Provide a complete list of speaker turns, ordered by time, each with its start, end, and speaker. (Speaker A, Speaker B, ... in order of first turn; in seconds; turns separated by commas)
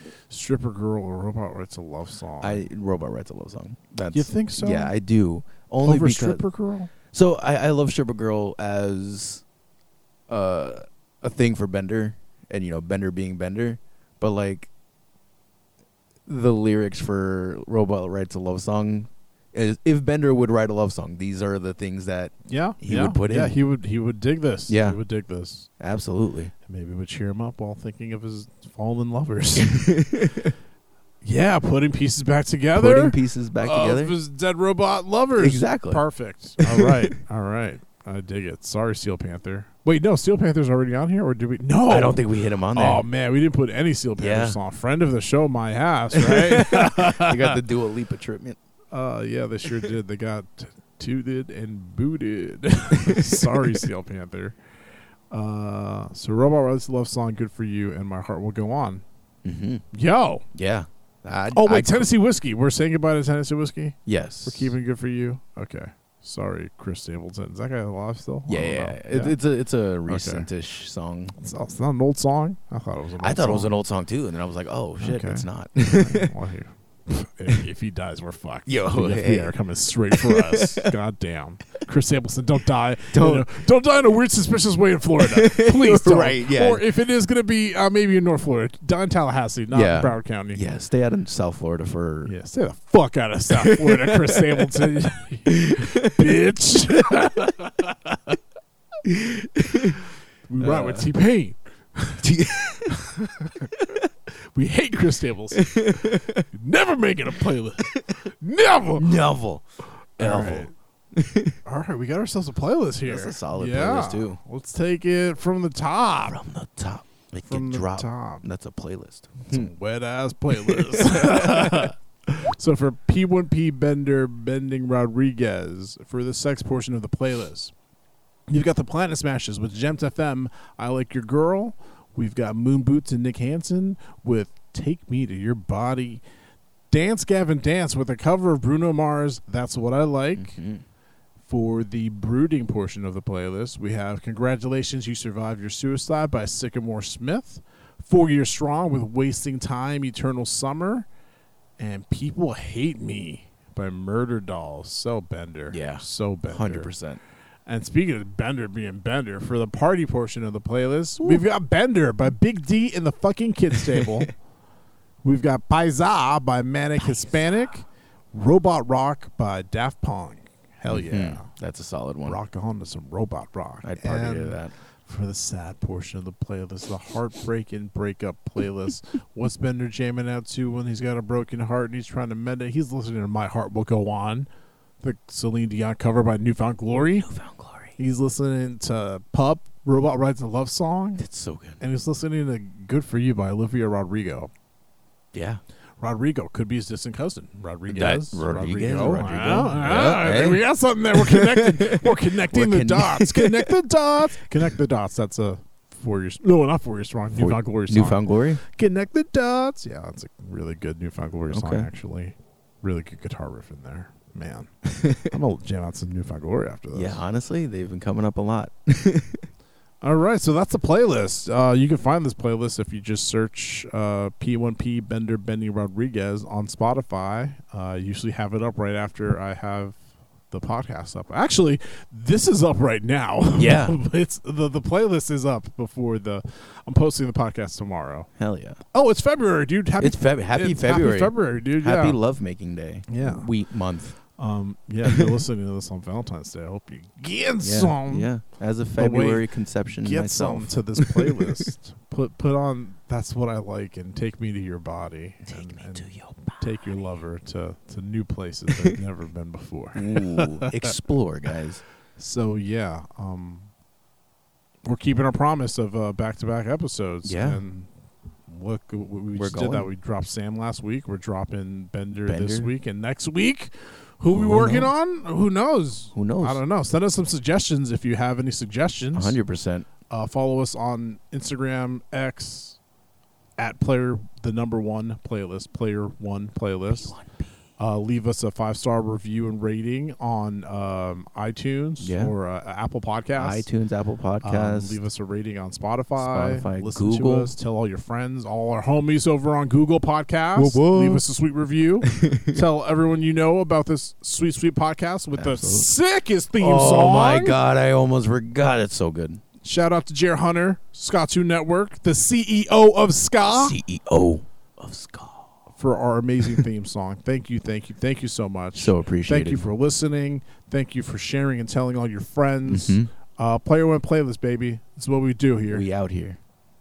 Speaker A: 0.3-2.6, Speaker B: 2.4-6.4, Speaker A: 4.1-4.9, Speaker A: 5.8-6.9, Speaker B: 7.0-9.4, Speaker B: 10.3-14.7, Speaker B: 16.3-23.6, Speaker A: 22.5-25.7, Speaker B: 24.7-25.0, Speaker B: 25.8-26.5, Speaker A: 26.7-30.2, Speaker B: 29.6-30.5, Speaker A: 31.2-47.6, Speaker B: 32.7-34.2, Speaker B: 35.4-36.0, Speaker B: 36.6-37.1, Speaker B: 41.9-43.0, Speaker B: 44.2-44.6, Speaker B: 46.1-48.6, Speaker A: 48.9-54.6, Speaker B: 53.0-53.6, Speaker A: 55.3-59.0, Speaker B: 59.5-59.8, Speaker A: 59.9-60.5, Speaker B: 60.5-62.1, Speaker A: 61.5-69.4, Speaker B: 64.1-64.7, Speaker B: 68.5-71.4, Speaker A: 70.1-70.5, Speaker A: 71.4-73.7, Speaker B: 73.2-76.3, Speaker A: 75.0-90.6, Speaker B: 78.7-79.5, Speaker B: 80.1-80.9, Speaker B: 83.1-83.5, Speaker B: 85.2-86.8, Speaker B: 89.7-92.3, Speaker A: 92.3-98.4, Speaker B: 93.5-94.7, Speaker B: 95.5-96.3, Speaker B: 99.0-100.0, Speaker A: 100.5-102.2, Speaker B: 100.6-101.1, Speaker B: 102.2-103.0, Speaker A: 102.9-103.7, Speaker A: 104.5-109.2, Speaker B: 105.6-106.4, Speaker B: 109.0-109.6, Speaker A: 110.2-110.7, Speaker B: 110.2-111.6, Speaker A: 111.7-116.4, Speaker B: 113.1-114.4, Speaker B: 116.3-119.7, Speaker A: 117.5-118.5, Speaker A: 119.5-127.7, Speaker B: 120.5-121.9, Speaker A: 128.5-136.2, Speaker A: 136.9-140.6, Speaker B: 140.4-140.8, Speaker A: 141.4-151.1, Speaker A: 151.8-156.9, Speaker B: 155.7-157.2, Speaker A: 157.7-164.3, Speaker B: 163.8-164.2, Speaker A: 165.2-171.5, Speaker B: 167.0-167.6, Speaker B: 170.9-172.4, Speaker A: 172.3-184.5, Speaker B: 173.8-174.7, Speaker A: 185.0-187.3, Speaker B: 187.1-187.9, Speaker A: 188.0-191.2, Speaker B: 191.2-191.8, Speaker A: 191.8-194.5, Speaker B: 195.3-195.6, Speaker A: 196.0-217.2, Speaker B: 197.9-200.6, Speaker B: 201.1-203.8, Speaker B: 207.3-208.6, Speaker B: 211.5-211.9, Speaker B: 214.9-215.2, Speaker B: 216.9-219.5, Speaker A: 220.0-230.0, Speaker A: 230.5-238.3, Speaker B: 233.6-234.0, Speaker B: 238.4-238.8, Speaker A: 238.9-242.2, Speaker B: 240.0-244.2, Speaker A: 243.1-243.5, Speaker A: 244.4-248.3, Speaker B: 245.1-245.4, Speaker B: 247.6-251.6, Speaker A: 249.0-249.5, Speaker A: 250.0-260.9, Speaker B: 255.4-256.7, Speaker B: 259.9-261.8, Speaker A: 262.2-263.7, Speaker A: 264.9-267.9, Speaker B: 267.2-267.6, Speaker A: 268.5-279.4, Speaker B: 269.4-269.9, Speaker B: 272.3-272.7, Speaker B: 274.3-274.9, Speaker B: 276.1-276.6, Speaker B: 279.1-279.9, Speaker A: 280.1-282.8, Speaker A: 283.6-287.2, Speaker B: 286.9-287.5, Speaker A: 287.8-293.7, Speaker B: 292.0-292.3, Speaker B: 293.4-295.0, Speaker A: 294.4-307.6, Speaker B: 296.2-297.5, Speaker B: 300.6-301.2, Speaker B: 302.1-302.6, Speaker B: 305.3-305.9, Speaker B: 306.6-309.4, Speaker A: 309.6-313.8, Speaker B: 313.5-315.5, Speaker A: 315.8-325.9, Speaker B: 318.8-319.7, Speaker B: 322.7-323.1, Speaker B: 325.7-326.4